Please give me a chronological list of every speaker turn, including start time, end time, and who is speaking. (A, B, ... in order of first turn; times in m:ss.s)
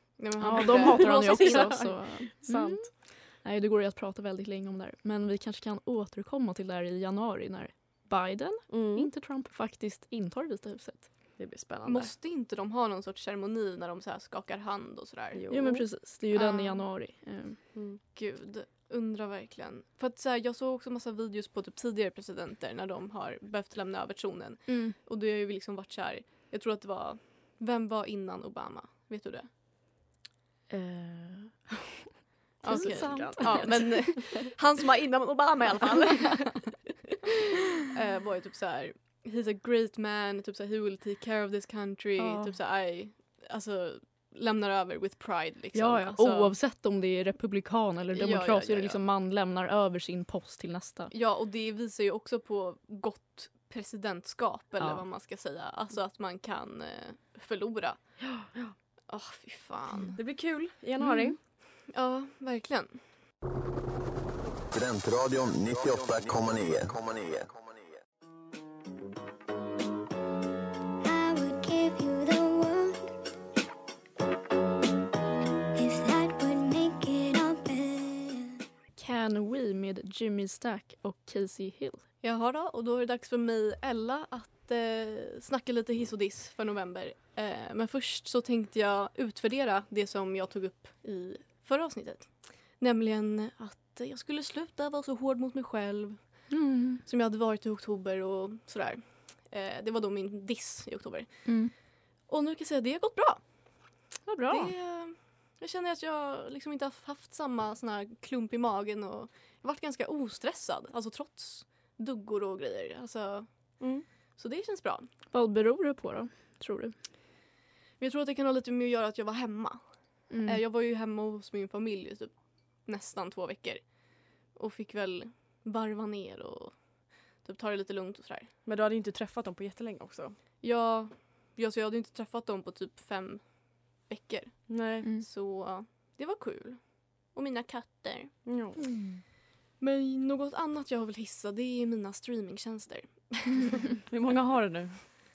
0:00.2-0:02.0 A
0:00.4-0:11.1 B
0:00.5-0:02.9 C
0:08.7-0:09.1 C
0:11.4-0:12.1 C
0:11.8-0:15.5 A
0:15.3-0:15.8 C
0:15.5-0:17.6 B
0:16.3-0:16.8 A
0:17.7-0:18.0 C
0:18.1-0:29.5 A
0:24.7-0:24.9 B
0:30.7-0:31.9 B
0:32.6-0:36.8 A
0:32.6-0:34.3 B
0:32.6-0:34.2 C
0:37.8-0:46.5 A
0:42.2-0:42.5 B
0:45.7-0:51.1 B
0:48.1-0:49.0 A
0:51.1-0:58.2 A
0:54.8-0:55.0 B
0:59.1-1:00.2 A
1:00.1-1:01.4 C
1:01.0-1:01.3 B
1:01.9-1:03.0 A
1:04.7-1:07.8 D
1:11.0-1:13.1 E
1:15.7-1:18.6 E
1:19.0-1:22.0 B
1:22.2-1:36.5 A
1:36.5-1:37.0 B
1:37.0-1:41.5 A
1:41.4-1:41.7 B
1:42.3-1:43.4 A
1:44.2-1:44.7 B
1:44.5-1:53.8 A
1:53.8-1:54.0 C
1:54.3-1:55.1 A
1:55.3-1:56.9 B
1:58.0-1:59.8 A
2:00.3-2:00.6 B
2:00.4-2:08.5 A
2:08.6-2:10.4 C
2:10.6-2:18.4 A
2:14.7-2:15.0 C
2:18.4-2:18.8 C
2:18.8-2:19.2 B
2:19.8-2:23.9 A
2:24.1-2:25.0 C